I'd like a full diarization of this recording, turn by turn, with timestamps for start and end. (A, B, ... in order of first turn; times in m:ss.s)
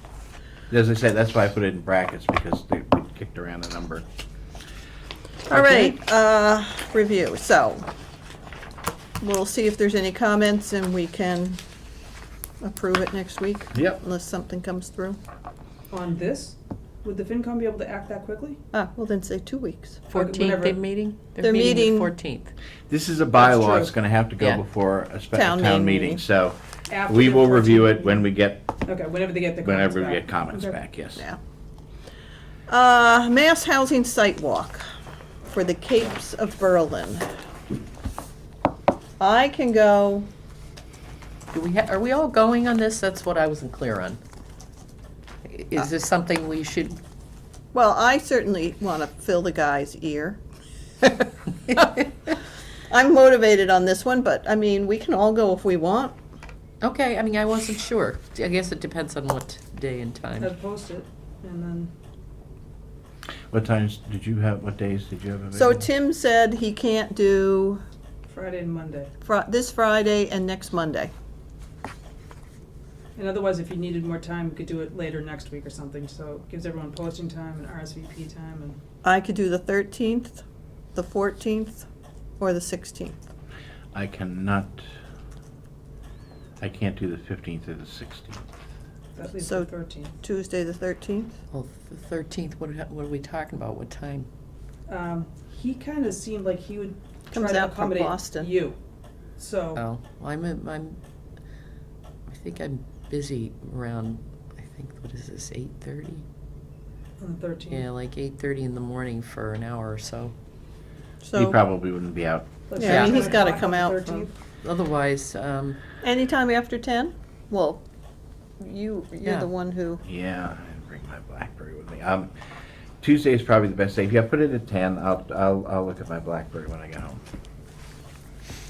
0:00.7-0:04.0 A
0:05.5-0:07.8 B
0:05.5-0:05.9 C
0:09.2-0:11.6 B
0:12.6-0:15.2 B
0:13.7-0:14.0 A
0:15.9-0:18.6 D
0:18.7-0:20.0 B
0:20.1-0:22.5 C
0:20.1-0:20.8 D
0:21.4-0:22.1 B
0:22.9-0:28.7 A
0:23.3-0:23.9 D
0:25.3-0:26.2 B
0:26.9-0:28.3 D
0:28.8-0:30.8 D
0:29.6-0:31.2 A
0:32.7-0:34.8 B
0:35.5-0:37.2 B
0:39.2-0:40.3 B
0:41.5-0:44.2 C
0:45.4-0:47.0 C
0:47.7-0:50.4 B
0:52.9-0:56.1 B
0:56.8-1:00.5 C
1:00.4-1:01.9 D
1:03.5-1:05.8 A
1:05.5-1:07.8 B
1:08.3-1:09.1 D
1:09.2-1:11.1 B
1:13.2-1:18.8 D
1:19.0-1:20.4 B
1:20.9-1:21.8 B
1:22.4-1:23.2 B
1:23.9-1:24.8 A
1:26.6-1:28.4 A
1:29.1-1:30.1 D
1:29.4-1:29.7 B
1:30.2-1:31.4 B
1:31.5-1:34.3 C
1:34.9-1:38.8 D
1:37.3-1:38.5 B
1:39.4-1:39.8 D
1:39.7-1:41.0 C
1:42.3-1:46.2 C
1:47.2-1:47.9 D
1:47.7-1:50.3 C
1:51.2-1:51.6 B
1:51.3-1:52.5 A
1:52.7-1:54.3 D
1:52.8-1:54.2 B
1:52.8-1:53.4 C
1:54.6-1:55.8 C
1:56.0-1:57.8 B
1:58.6-2:00.0 B
1:59.2-1:59.5 C
2:00.0-2:02.3 A
2:03.0-2:07.2 A